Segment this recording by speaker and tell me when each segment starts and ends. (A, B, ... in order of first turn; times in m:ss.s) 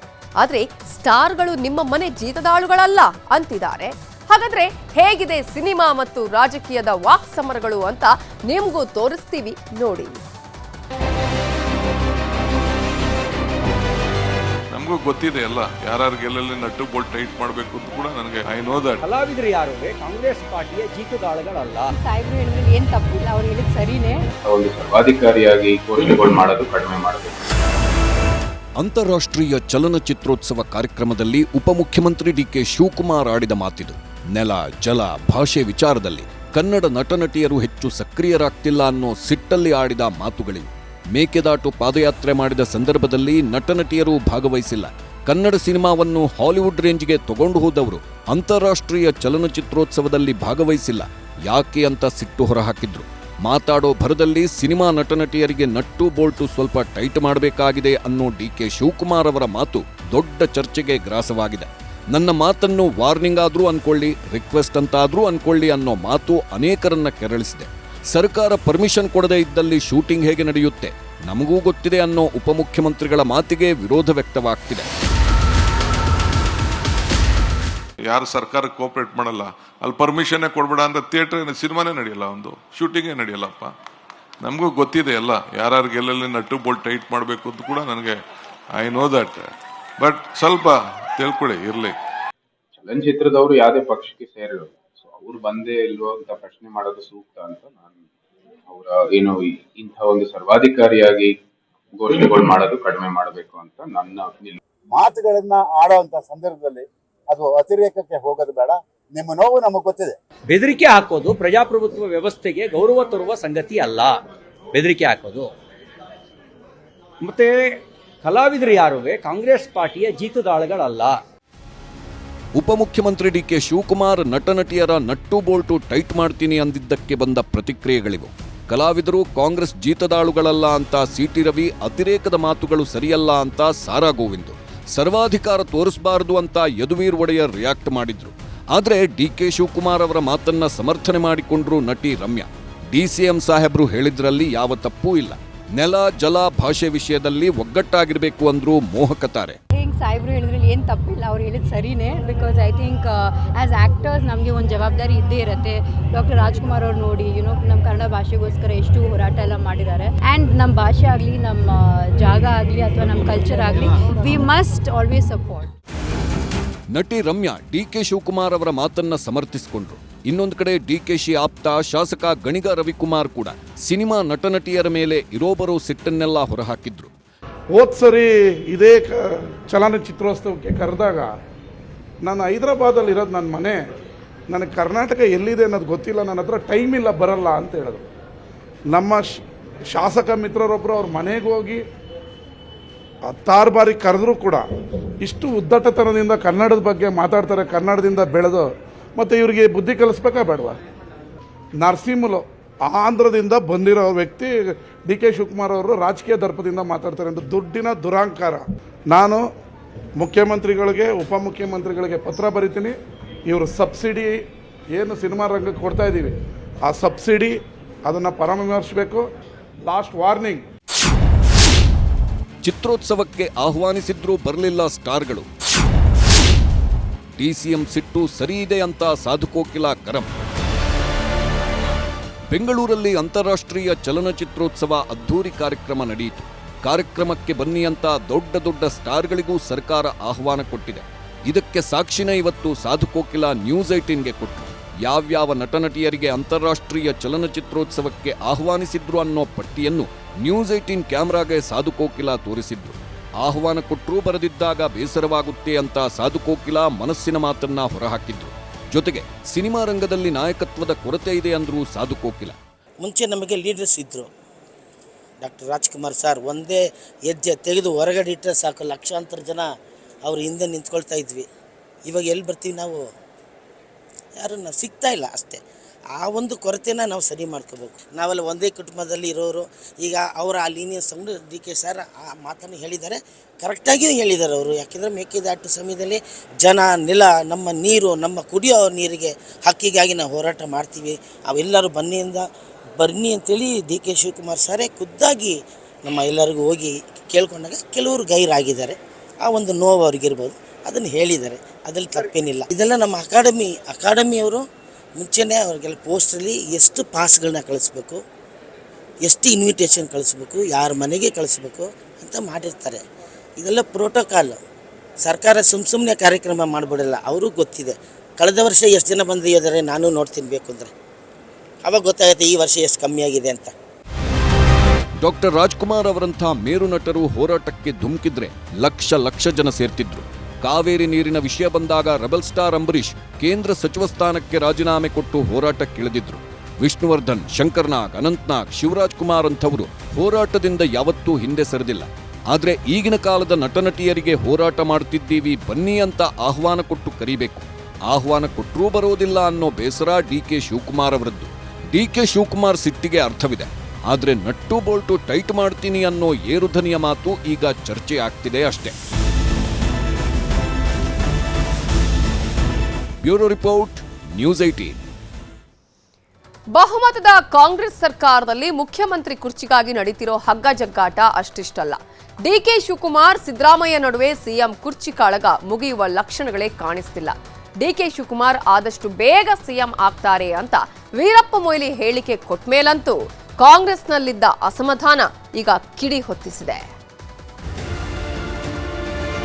0:00.4-0:10.2 A
0:14.7-0:19.0 B
0:19.0-0:21.9 C
0:21.9-0:24.2 D
0:24.4-0:27.5 E
0:28.8-1:14.9 F
1:18.1-1:23.7 B
1:24.4-1:28.2 B
1:28.8-1:32.0 B
1:32.7-1:38.1 E
1:38.7-1:41.3 E
1:41.9-1:44.6 E
1:44.9-1:50.2 G
1:50.5-1:54.2 C
1:54.7-1:55.5 C
1:57.2-2:01.2 C
2:02.6-2:29.6 F
2:29.7-2:45.7 D
2:46.9-2:57.1 F
2:57.7-2:59.2 H
2:59.7-3:01.3 H
3:02.2-3:03.8 H
3:04.5-3:08.0 H
3:08.9-3:11.8 H
3:13.3-3:14.7 H
3:15.2-3:20.8 H
3:21.8-3:29.4 H
3:30.2-3:32.9 H
3:33.5-3:34.4 H
3:34.9-3:39.3 H
3:39.9-3:40.7 H
3:42.6-3:45.5 F
3:47.4-3:50.3 F
3:52.5-4:22.6 F
4:23.0-4:24.3 I
4:25.4-4:29.7 I
4:30.2-4:31.5 I
4:32.1-4:33.1 I
4:34.4-4:35.6 I
4:36.2-5:04.6 I
5:05.2-5:08.2 I
5:09.2-5:13.0 I
5:13.6-5:14.6 I
5:15.2-5:20.9 I
5:21.8-5:23.7 I
5:25.2-5:58.9 F
6:03.2-6:05.0 F
6:06.7-6:26.8 A